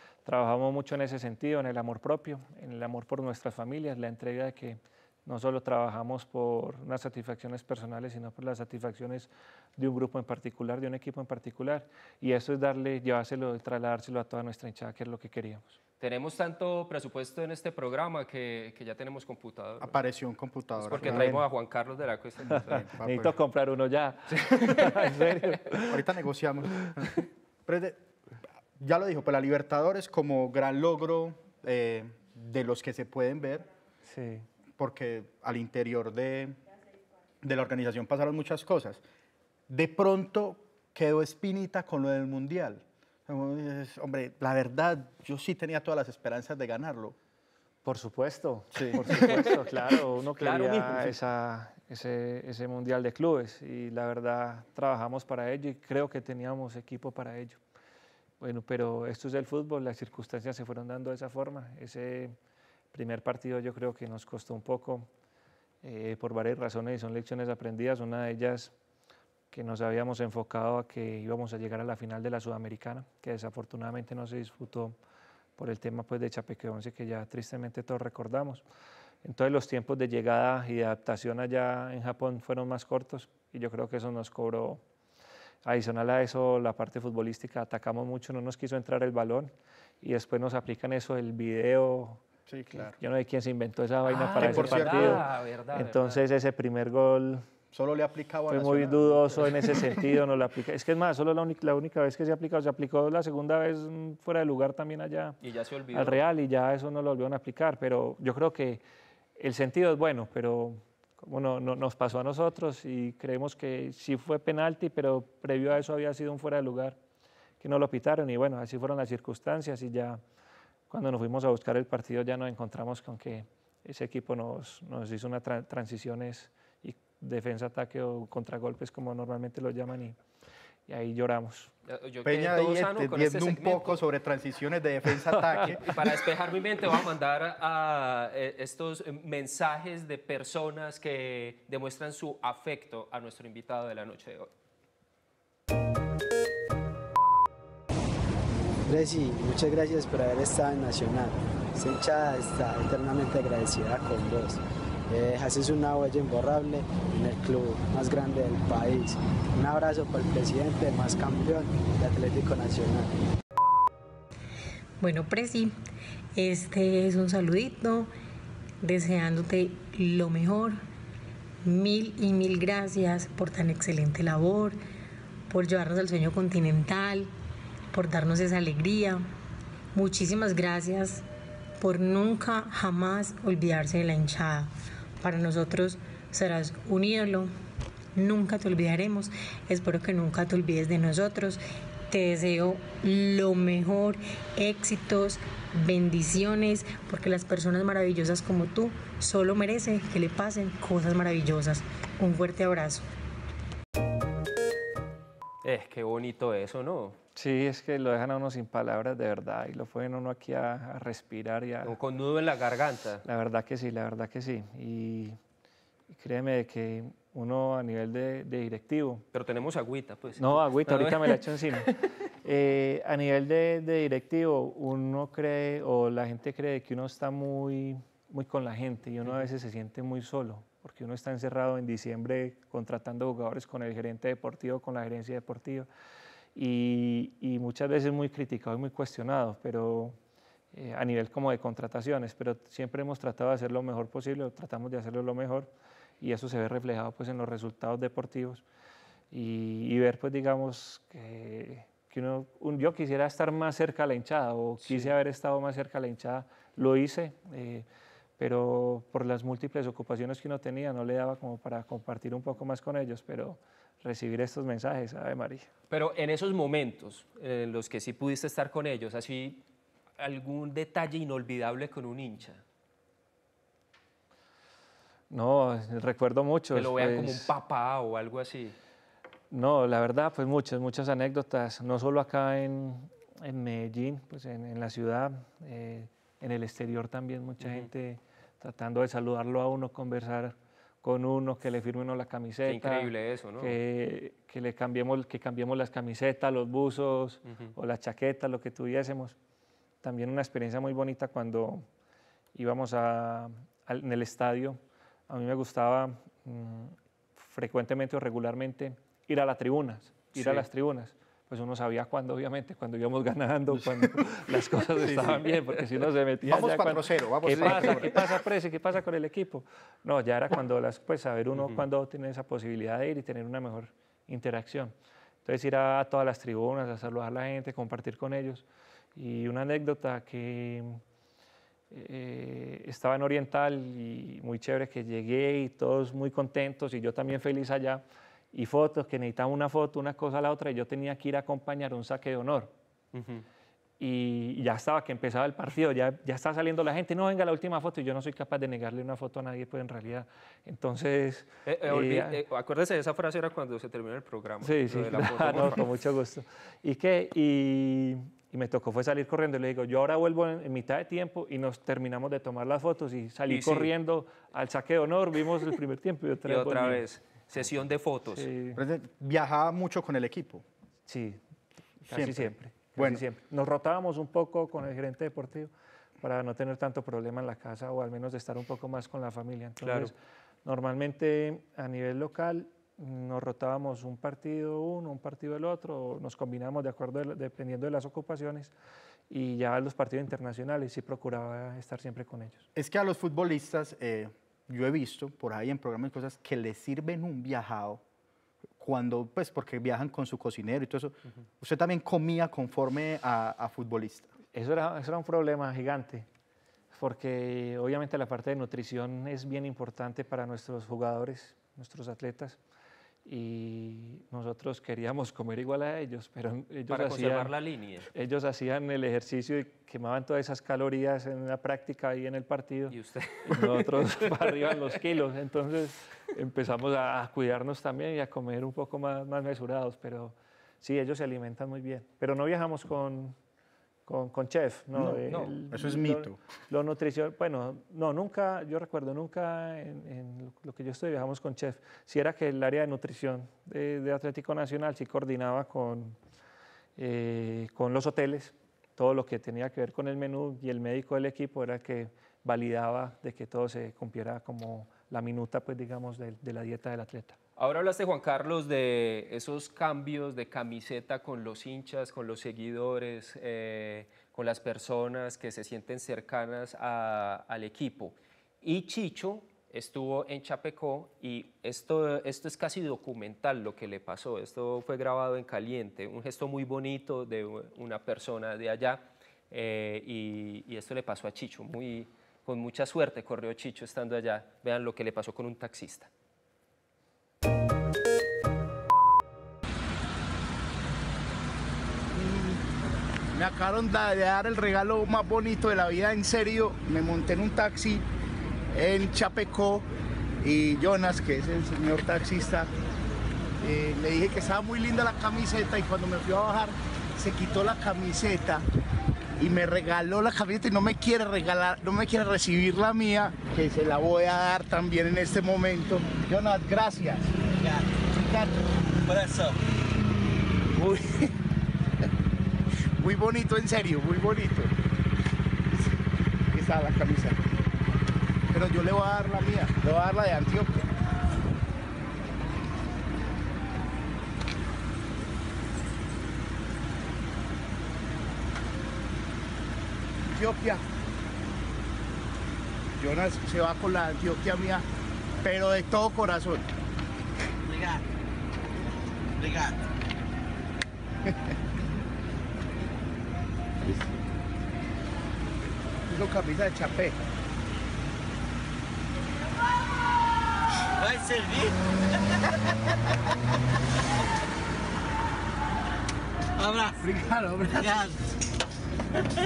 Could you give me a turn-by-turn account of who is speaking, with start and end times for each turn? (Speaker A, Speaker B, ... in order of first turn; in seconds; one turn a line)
Speaker A: 0.2-15.8
Speaker B: 16.0-20.0
Speaker C: 19.8-21.3
Speaker B: 20.8-22.8
Speaker A: 20.9-21.4
Speaker C: 22.4-23.4
Speaker A: 22.6-26.0
Speaker B: 24.4-25.3
Speaker C: 25.9-28.0
Speaker C: 28.8-33.7
Speaker A: 34.0-34.5
Speaker C: 34.8-36.6
Speaker C: 37.4-39.0
Speaker C: 39.7-47.1
Speaker A: 47.8-57.6
Speaker C: 48.7-49.0
Speaker B: 49.1-49.7
Speaker B: 50.4-51.1
Speaker A: 58.4-62.3
Speaker A: 62.9-65.1
Speaker A: 65.8-68.7
Speaker A: 69.5-75.0
Speaker A: 75.6-78.6
Speaker A: 79.2-84.8
Speaker A: 85.6-97.5
Speaker C: 92.5-92.9
Speaker B: 94.1-96.2
Speaker C: 94.2-95.2
Speaker C: 97.7-100.2
Speaker A: 98.5-105.4
Speaker B: 105.4-106.2
Speaker A: 105.9-108.8
Speaker A: 109.4-117.0
Speaker A: 117.6-120.2
Speaker A: 120.9-130.2
Speaker A: 130.9-131.7
Speaker B: 131.8-134.0
Speaker C: 132.2-135.8
Speaker A: 135.3-135.8
Speaker B: 135.8-144.5
Speaker D: 148.8-163.2
Speaker E: 165.0-165.7
Speaker E: 166.3-168.1
Speaker E: 168.8-170.8
Speaker E: 171.6-174.8
Speaker E: 175.5-177.3
Speaker E: 177.9-179.2
Speaker E: 179.9-181.2
Speaker E: 181.8-187.5
Speaker E: 188.2-203.0
Speaker B: 205.6-207.2
Speaker A: 207.3-211.9
Speaker B: 211.8-213.2
Speaker A: 213.2-215.4
Speaker A: 216.1-219.2
Speaker B: 219.3-221.9
Speaker A: 220.4-235.9
Speaker A: 236.5-240.2
Speaker A: 240.7-248.6
Speaker A: 249.3-257.9
Speaker B: 254.8-255.1
Speaker A: 258.4-265.7
Speaker B: 265.9-269.6
Speaker B: 270.2-272.6
Speaker A: 275.3-277.5
Speaker B: 276.7-278.8
Speaker A: 279.5-299.4
Speaker B: 287.6-287.9
Speaker B: 292.6-293.8
Speaker A: 300.0-301.8
Speaker A: 302.5-324.9
Speaker B: 310.3-310.6
Speaker C: 315.0-315.4
Speaker B: 315.2-315.5
Speaker C: 316.4-318.3
Speaker B: 317.5-318.2
Speaker B: 321.6-321.9
Speaker A: 325.4-331.0
Speaker A: 331.9-342.7
Speaker B: 343.1-343.4
Speaker A: 344.0-352.4
Speaker B: 351.6-355.8
Speaker A: 354.6-367.0
Speaker B: 363.5-363.9
Speaker B: 366.5-368.5
Speaker A: 368.3-368.8
Speaker C: 368.8-370.6
Speaker A: 371.1-371.4
Speaker A: 372.0-388.7
Speaker C: 372.1-373.2
Speaker B: 379.8-380.1
Speaker A: 389.3-392.6
Speaker C: 392.7-398.0
Speaker C: 398.8-404.3
Speaker A: 404.5-406.2
Speaker A: 406.9-412.6
Speaker A: 413.2-417.5
Speaker B: 416.9-418.1
Speaker A: 418.1-433.3
Speaker B: 422.9-424.8
Speaker A: 434.1-446.2
Speaker C: 434.9-436.4
Speaker A: 447.0-457.4
Speaker B: 457.6-486.1
Speaker F: 492.1-492.6
Speaker F: 493.3-498.0
Speaker F: 498.7-499.9
Speaker F: 500.4-502.7
Speaker F: 503.6-508.6
Speaker F: 509.4-517.3
Speaker G: 517.5-518.1
Speaker F: 518.1-518.5
Speaker G: 518.9-519.6
Speaker F: 520.7-521.3
Speaker F: 523.0-524.7
Speaker F: 526.5-527.4
Speaker F: 528.5-530.8
Speaker F: 540.3-540.8
Speaker F: 543.0-544.8
Speaker F: 545.4-546.6
Speaker G: 547.6-548.0
Speaker G: 549.4-549.8
Speaker F: 556.1-557.2
Speaker G: 561.0-561.8
Speaker G: 566.6-568.1
Speaker F: 567.0-567.7